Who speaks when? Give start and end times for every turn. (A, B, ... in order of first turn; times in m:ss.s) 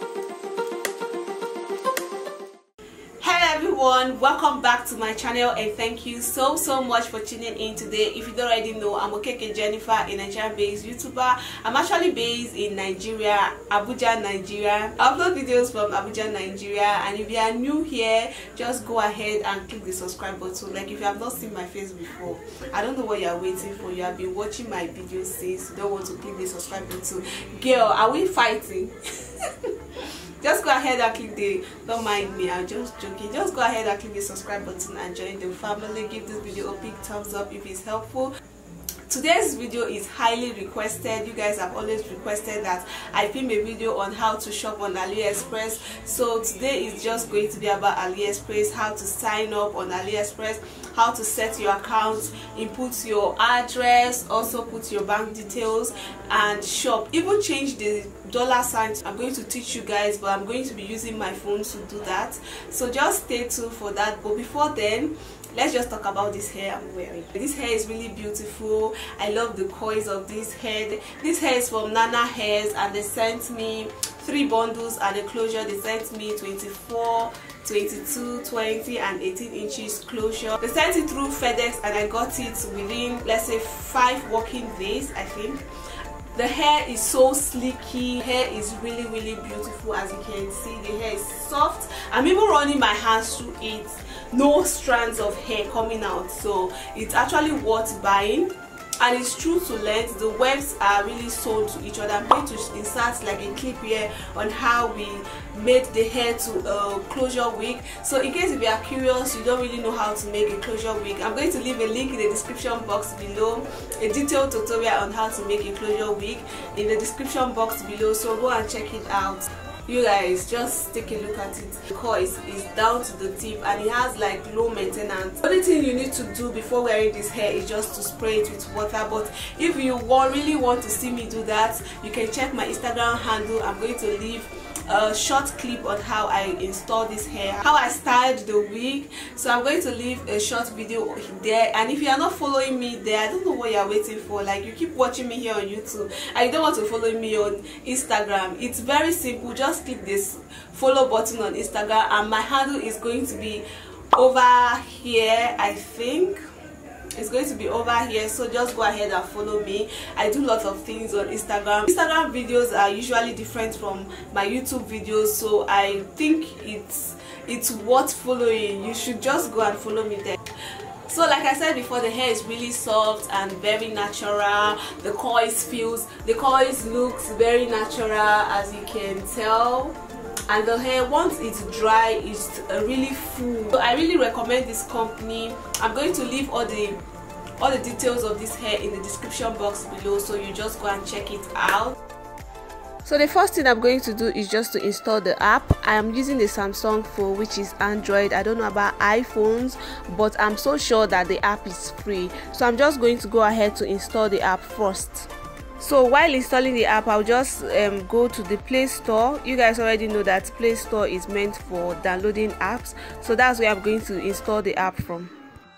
0:03.2-0:38.3 A
0:39.1-1:25.6 A
1:26.4-2:36.4 A
2:37.2-2:50.4 A
2:51.1-3:00.0 A
3:00.5-3:07.0 A
3:07.6-3:12.0 A
3:13.0-3:35.3 A